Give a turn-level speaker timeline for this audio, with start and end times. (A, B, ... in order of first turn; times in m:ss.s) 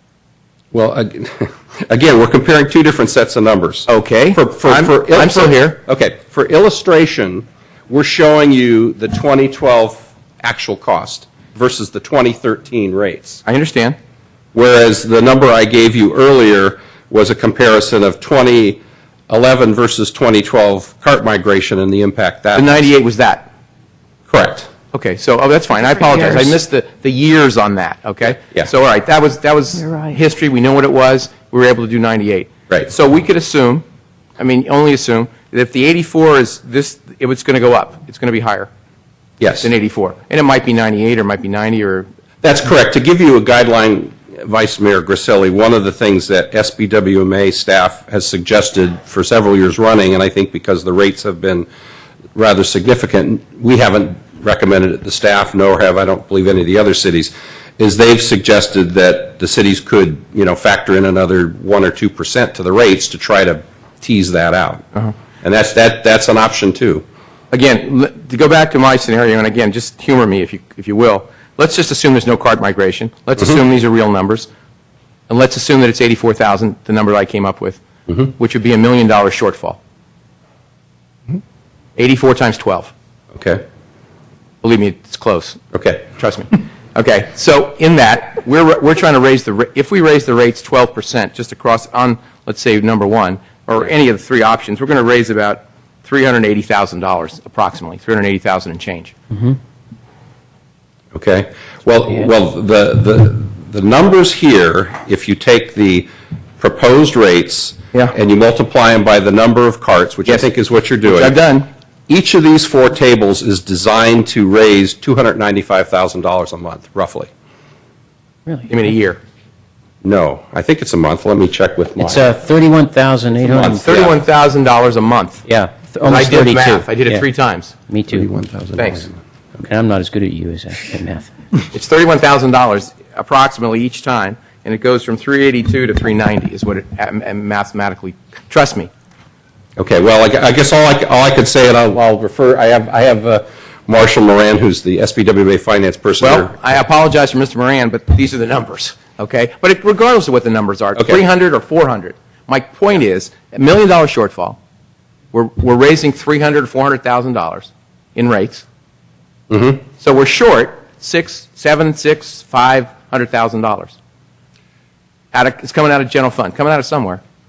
0:00.7-0:13.4 A
0:03.9-0:05.8 B
0:13.4-0:14.0 B
0:14.5-0:22.7 A
0:22.5-0:23.5 B
0:24.3-0:24.7 A
0:24.9-0:33.8 B
0:34.4-0:38.7 B
0:39.4-0:39.7 A
0:39.6-0:42.1 B
0:42.4-0:51.7 A
0:52.3-1:04.9 A
1:05.4-1:07.0 A
1:07.5-1:14.5 B
1:15.3-1:19.8 B
1:22.0-1:22.9 B
1:23.3-1:23.6 A
1:24.6-1:25.6 B
1:25.7-1:26.2 A
1:26.2-1:39.1 B
1:41.1-1:46.1 A
1:46.6-1:51.4 A
1:51.0-1:51.7 B
1:52.1-1:57.3 A
1:58.7-1:59.2 B
2:00.0-2:02.3 A
2:02.0-2:04.0 C
2:03.5-2:04.2 A
2:03.8-2:05.4 B
2:05.4-2:07.2 C
2:06.0-2:07.7 B
2:07.9-2:08.3 C
2:08.1-2:09.1 A
2:08.8-2:09.1 B
2:09.6-2:11.3 C
2:11.7-2:18.9 B
2:19.8-2:26.6 A
2:26.2-2:34.6 B
2:35.3-2:38.6 B
2:39.5-2:39.8 A
2:40.0-2:44.0 B
2:45.3-2:47.2 B